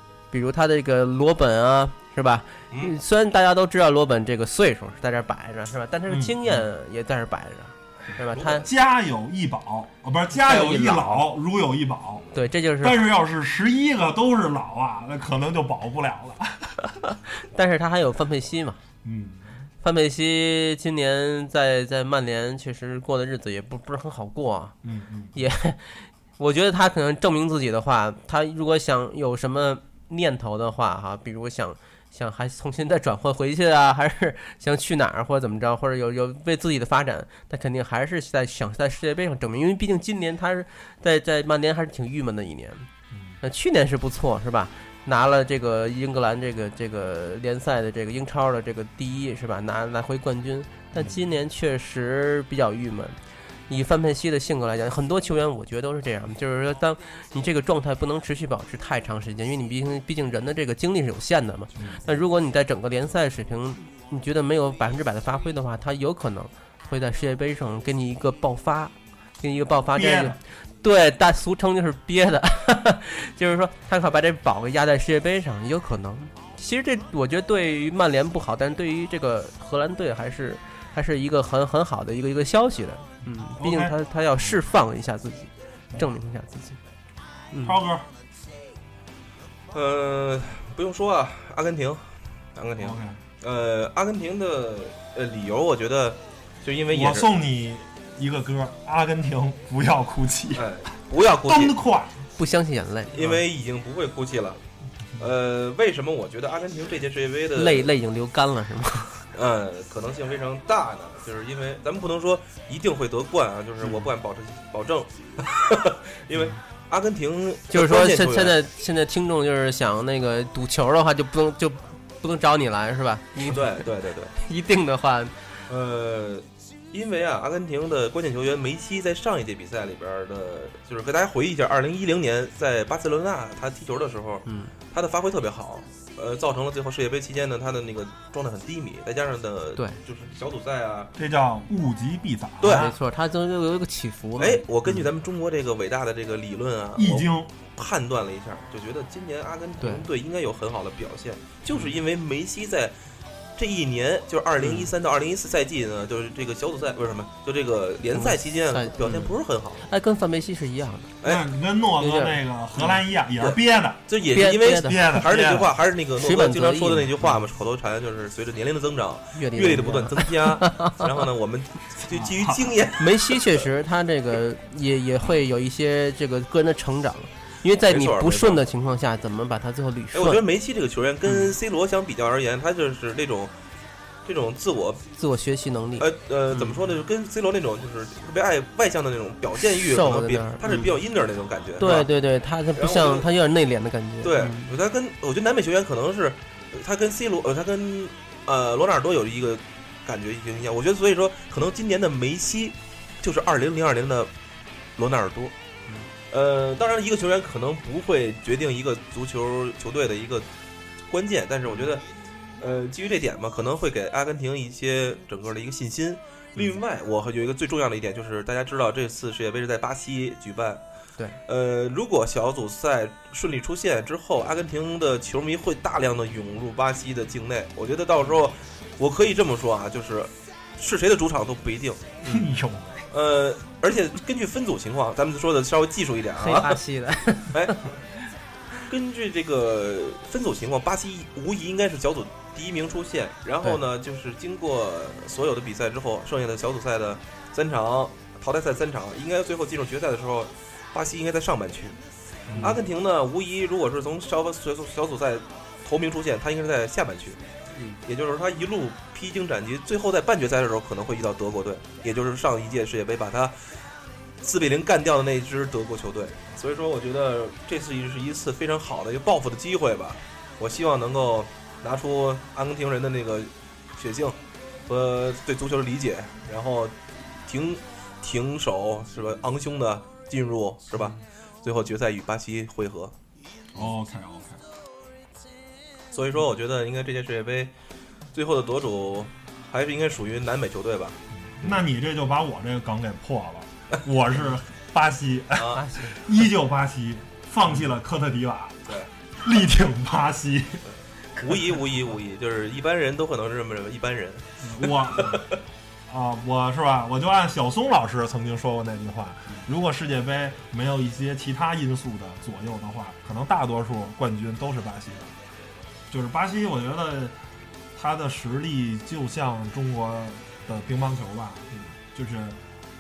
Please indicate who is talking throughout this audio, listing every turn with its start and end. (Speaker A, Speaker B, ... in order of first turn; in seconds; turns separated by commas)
Speaker A: 0.3-8.7, Speaker B: 6.1-6.6, Speaker C: 8.4-8.6, Speaker B: 8.6-12.3, Speaker A: 10.3-11.2, Speaker A: 12.3-13.0, Speaker B: 12.8-16.9, Speaker A: 17.4-18.8, Speaker B: 19.0-19.5, Speaker A: 19.8-24.8, Speaker B: 24.8-25.4, Speaker A: 25.3-42.9, Speaker B: 43.1-43.4, Speaker A: 43.4-86.8, Speaker B: 51.0-51.2, Speaker B: 61.8-62.0, Speaker B: 69.9-70.4, Speaker B: 83.4-84.0, Speaker A: 87.5-87.8, Speaker B: 87.6-88.1, Speaker C: 89.7-97.3, Speaker B: 92.8-93.2, Speaker B: 96.9-100.8, Speaker C: 100.5-101.8, Speaker B: 101.3-102.2, Speaker A: 102.4-103.2, Speaker C: 103.1-104.6, Speaker B: 103.2-103.4, Speaker C: 105.2-107.9, Speaker A: 107.5-109.3, Speaker C: 109.3-118.6, Speaker A: 117.7-123.8, Speaker C: 123.4-124.3, Speaker A: 124.3-125.5, Speaker C: 125.7-141.1, Speaker A: 134.5-134.8, Speaker B: 141.2-142.9, Speaker C: 142.6-142.9, Speaker A: 142.7-144.6, Speaker C: 144.4-153.0, Speaker B: 147.0-147.5, Speaker A: 149.8-150.1, Speaker C: 153.6-159.8, Speaker A: 154.6-154.9, Speaker A: 158.1-161.1, Speaker B: 161.2-164.1, Speaker A: 162.0-162.4, Speaker C: 162.8-163.6, Speaker C: 164.1-173.4, Speaker A: 164.3-165.2, Speaker B: 164.8-165.7, Speaker A: 166.2-167.1, Speaker A: 169.3-171.1, Speaker B: 172.1-172.8, Speaker A: 173.0-180.4, Speaker C: 177.9-178.6, Speaker C: 180.1-183.5, Speaker A: 181.3-181.5, Speaker C: 184.2-185.1, Speaker A: 185.2-186.9, Speaker C: 186.0-192.1, Speaker A: 189.8-190.9, Speaker A: 191.8-194.7, Speaker C: 192.8-193.3, Speaker C: 194.2-204.3, Speaker C: 205.0-205.5, Speaker C: 206.3-210.5, Speaker C: 211.1-212.0, Speaker C: 212.6-220.8, Speaker C: 221.5-232.2, Speaker B: 232.2-233.1, Speaker C: 233.1-236.8, Speaker A: 236.4-238.0, Speaker C: 237.5-237.8, Speaker C: 238.9-252.0, Speaker B: 252.5-252.8, Speaker C: 252.6-257.4, Speaker A: 257.7-258.0, Speaker C: 258.1-263.7, Speaker C: 264.4-277.0, Speaker C: 277.5-283.1, Speaker B: 283.7-284.6, Speaker C: 286.1-287.7, Speaker C: 288.3-291.7, Speaker B: 291.5-300.8, Speaker C: 295.6-295.8, Speaker A: 295.7-296.2, Speaker C: 301.4-304.6, Speaker B: 304.6-305.5, Speaker C: 305.1-305.6, Speaker B: 306.1-315.3, Speaker B: 316.1-317.4, Speaker B: 317.9-322.6